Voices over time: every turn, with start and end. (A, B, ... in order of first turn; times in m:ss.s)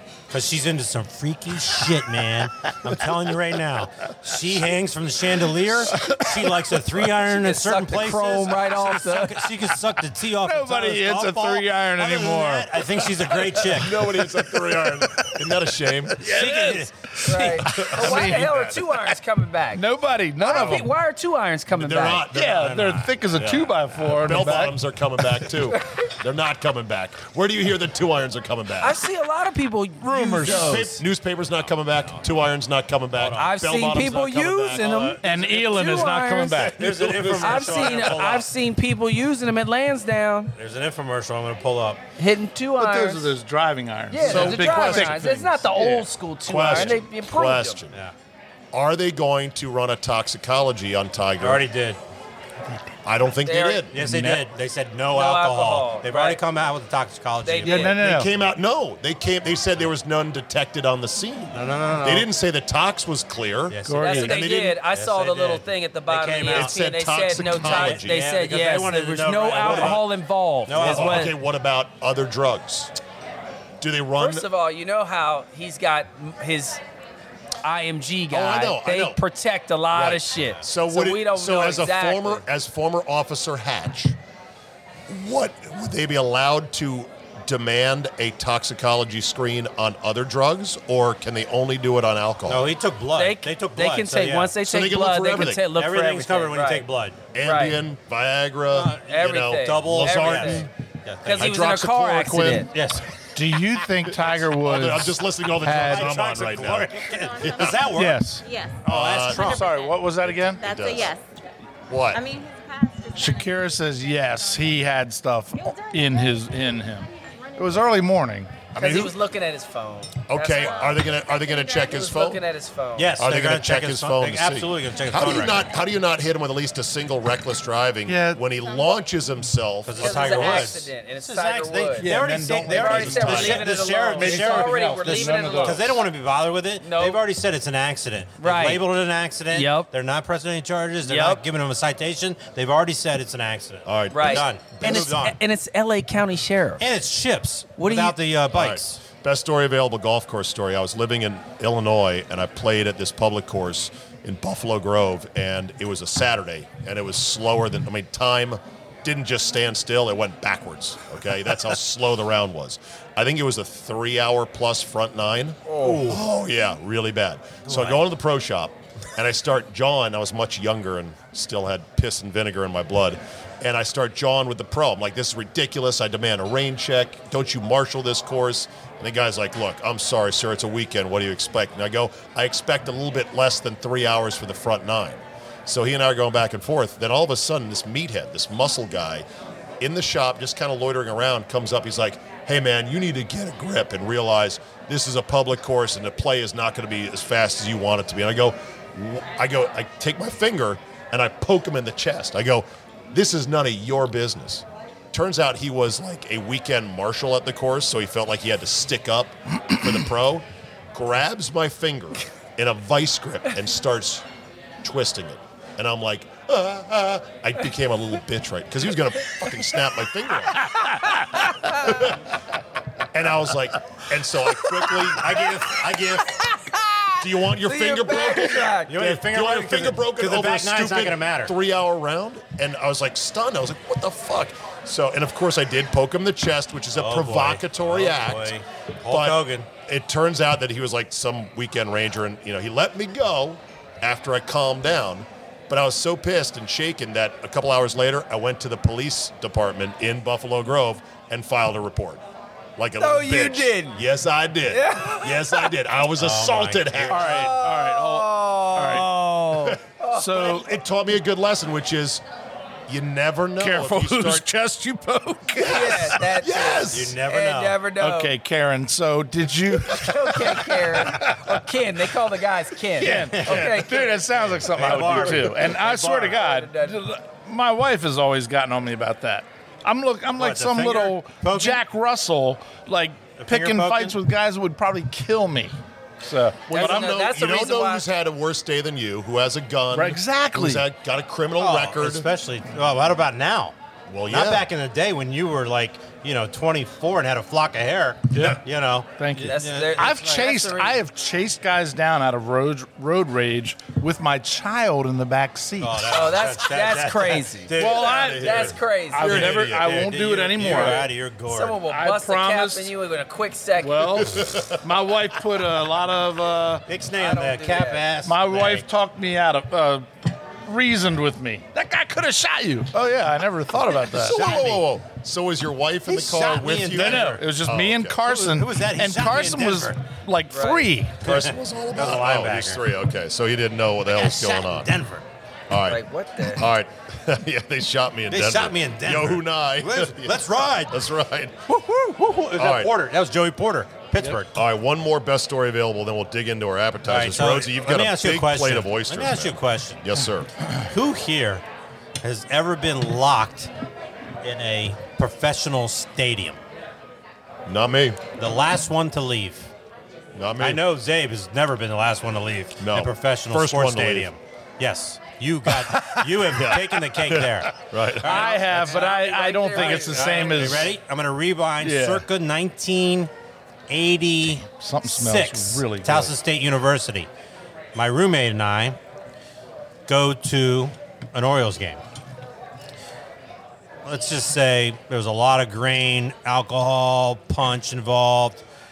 0:00.3-0:14.0 A
0:07.2-0:09.5 B
0:10.4-0:13.2 C
0:13.6-0:16.3 D
0:13.9-0:15.4 C
0:16.2-0:18.8 C
0:16.2-0:17.8 A
0:17.2-0:19.8 B
0:17.7-0:18.8 D
0:19.7-0:20.9 C
0:20.4-0:22.3 B
0:21.7-0:29.0 D
0:22.3-0:24.8 C
0:28.8-0:30.8 B
0:30.0-0:30.9 C
0:30.4-0:35.2 D
0:31.9-0:32.4 A
0:33.1-0:34.1 A
0:33.4-0:36.7 B
0:35.2-0:37.1 C
0:36.6-0:38.5 A
0:36.8-0:38.1 D
0:37.4-0:40.5 B
0:40.6-0:42.0 A
0:42.2-0:43.3 B
0:42.8-0:46.0 C
0:44.1-0:47.8 B
0:44.2-0:45.2 D
0:46.4-0:48.0 D
0:46.7-0:47.0 A
0:48.7-0:51.6 D
0:51.4-0:52.0 A
0:53.0-0:54.0 D
0:53.4-0:53.8 B
0:53.9-0:58.0 A
0:54.0-0:54.5 C
0:55.1-0:56.4 B
0:57.4-0:58.0 B
0:57.6-0:58.3 C
0:57.9-1:04.8 D
1:01.5-1:02.3 A
1:03.7-1:06.8 A
1:03.8-1:04.3 C
1:04.0-1:11.3 B
1:06.4-1:08.5 D
1:07.6-1:10.1 A
1:09.6-1:10.0 D
1:10.6-1:11.3 A
1:10.7-1:12.9 D
1:13.8-1:14.4 D
1:14.2-1:16.8 B
1:17.6-1:22.4 B
1:18.3-1:19.2 D
1:19.9-1:24.2 D
1:25.1-1:32.7 D
1:32.5-1:34.6 A
1:33.2-1:36.9 B
1:34.6-1:35.6 D
1:35.7-1:37.2 A
1:37.3-1:40.7 D
1:37.4-1:37.8 B
1:38.7-1:41.6 A
1:39.0-1:40.7 B
1:41.2-1:42.7 B
1:41.2-1:42.8 D
1:42.7-1:43.1 A
1:43.3-1:46.2 C
1:44.2-1:47.9 D
1:45.7-1:49.7 A
1:46.8-1:51.2 E
1:48.0-1:48.4 C
1:48.8-1:49.6 D
1:49.4-1:50.6 C
1:50.2-1:51.1 D
1:51.9-1:52.2 D
1:52.0-1:54.8 E
1:53.1-1:59.1 C
1:55.6-1:56.4 E
1:58.8-2:00.9 B
2:00.3-2:02.4 D
2:00.5-2:02.0 E
2:01.7-2:03.2 B
2:03.0-2:05.7 A
2:03.2-2:10.8 D
2:08.0-2:08.4 C
2:08.6-2:08.9 E
2:09.8-2:25.4 A
2:10.0-2:15.9 B
2:12.0-2:16.0 C
2:12.8-2:13.7 D
2:16.8-2:17.2 B
2:18.4-2:18.8 B
2:19.5-2:19.9 B
2:21.0-2:21.4 B
2:23.8-2:25.1 D
2:24.1-2:26.8 B
2:26.8-2:29.0 A
2:27.8-2:28.2 B
2:28.5-3:09.2 D
2:45.7-2:46.0 B
2:45.8-2:46.2 A
2:47.6-2:48.0 A
3:09.8-3:34.2 D
3:34.8-3:40.7 D
3:40.8-3:42.0 B
3:41.7-3:42.2 D
3:43.1-3:46.4 D
3:44.6-3:45.0 B
3:45.2-3:45.6 A
3:46.3-3:49.0 B
3:47.2-3:58.5 D
3:48.8-3:51.5 A
3:56.9-3:59.7 A
3:59.1-4:12.2 D
4:12.8-4:17.5 D
4:13.0-4:14.0 B
4:14.7-4:15.7 B
4:16.2-4:17.1 A
4:17.0-4:19.1 C
4:17.1-4:20.4 B
4:20.1-4:20.7 C
4:20.3-4:22.2 D
4:22.9-4:24.5 D
4:23.6-4:26.3 C
4:25.6-4:27.2 D
4:25.6-4:28.3 B
4:26.9-4:27.8 A
4:28.0-4:31.6 C
4:29.8-4:34.2 B
4:33.0-4:47.2 C
4:33.0-4:36.4 A
4:35.8-4:37.0 B
4:40.4-4:41.8 A
4:43.4-4:44.2 A
4:46.7-4:52.3 D
4:46.7-4:48.0 B
4:49.9-4:50.9 C
4:51.6-4:53.7 A
4:54.1-4:54.7 D
4:54.3-5:00.4 A
4:58.3-4:58.6 C
4:59.2-5:06.3 C
4:59.4-5:01.0 B
5:05.8-5:08.3 A
5:06.1-5:09.3 B
5:07.8-5:11.1 C
5:08.0-5:09.9 D
5:09.2-5:11.8 A
5:11.5-5:14.4 B
5:11.9-5:12.9 C
5:13.8-5:16.8 C
5:14.3-5:14.8 D
5:16.9-5:18.8 A
5:17.2-5:18.0 B
5:18.2-5:24.4 C
5:24.1-5:28.2 D
5:24.3-5:24.8 A
5:26.1-5:27.4 A
5:26.8-5:31.2 C
5:28.2-5:30.0 A
5:30.5-5:30.9 B
5:31.2-5:34.9 D
5:31.2-5:32.8 A
5:34.1-5:35.2 A
5:35.7-5:41.6 D
5:35.8-5:36.6 B
5:38.3-5:41.0 A
5:41.7-5:44.5 A
5:42.5-5:42.9 D
5:44.5-5:50.5 D
5:47.0-5:50.0 A
5:50.8-5:51.6 A
5:52.2-5:53.7 A
5:54.4-5:56.6 A
5:57.7-5:58.2 D
5:58.4-5:59.7 A
6:00.3-6:00.8 D
6:00.6-6:09.2 A
6:02.8-6:04.3 D
6:06.0-6:06.8 C
6:06.6-6:08.5 D
6:08.2-6:10.8 B
6:08.3-6:11.0 C
6:09.7-6:13.3 A
6:11.8-6:12.2 C
6:13.9-6:17.3 A
6:14.7-6:16.3 C
6:17.9-6:19.0 A
6:20.1-6:22.0 A
6:24.0-6:28.6 A